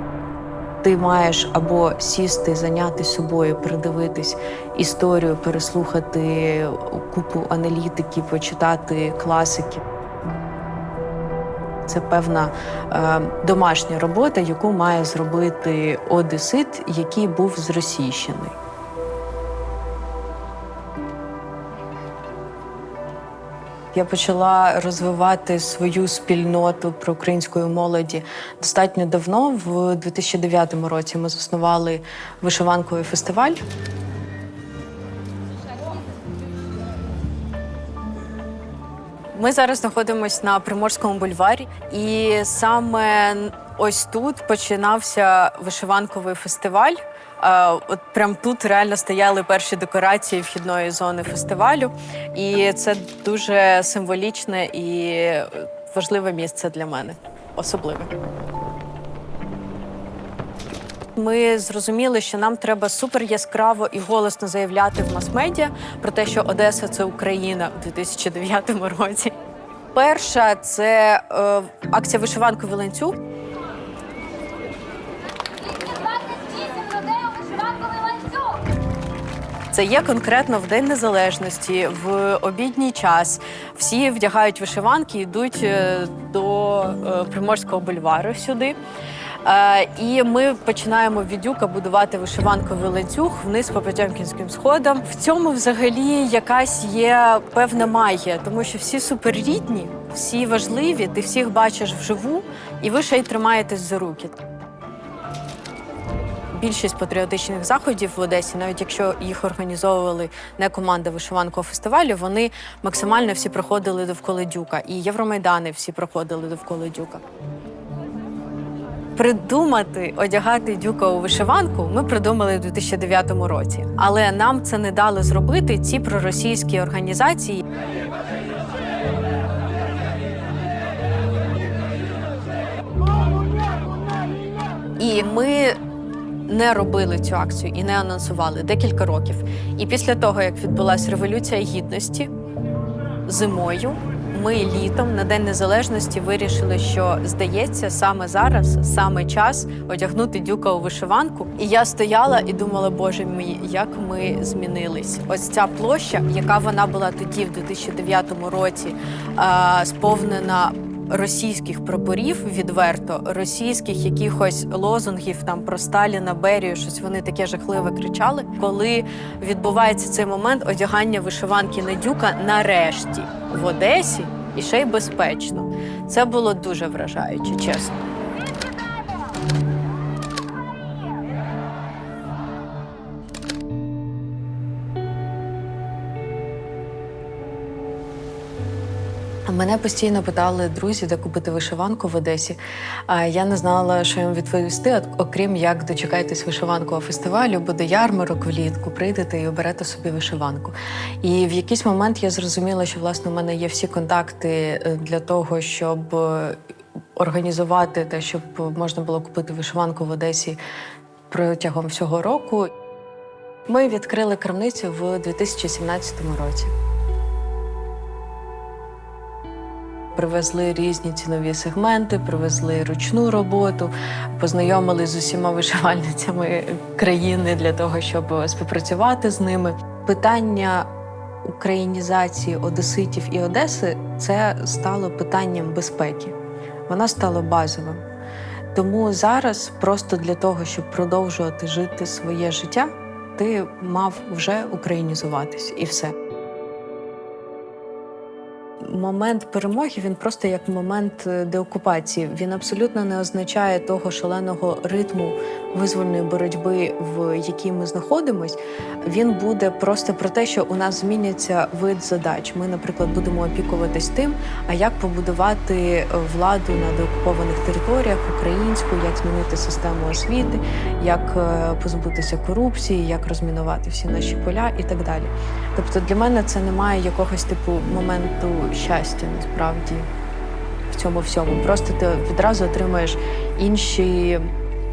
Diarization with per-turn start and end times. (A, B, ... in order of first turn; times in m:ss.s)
0:00.8-0:09.8 A
0:11.9-0:18.6 A
0:23.9-0:33.6 A
0:39.3-0:58.1 A
1:01.2-1:09.3 A
1:09.9-1:13.2 A
1:19.7-1:28.8 A
1:29.4-1:44.4 A
1:46.5-1:57.2 A
1:59.2-2:07.6 A
2:15.0-2:15.8 A
2:16.5-2:22.3 A
2:23.3-2:58.0 A
3:09.5-3:26.6 A
3:27.2-3:30.6 A
3:31.3-3:32.7 A
3:33.7-3:36.7 A
3:40.2-3:50.9 A
3:51.4-3:56.4 A
3:56.9-3:58.0 A
3:58.7-4:06.1 A
4:08.8-4:40.1 A
4:40.9-4:44.5 A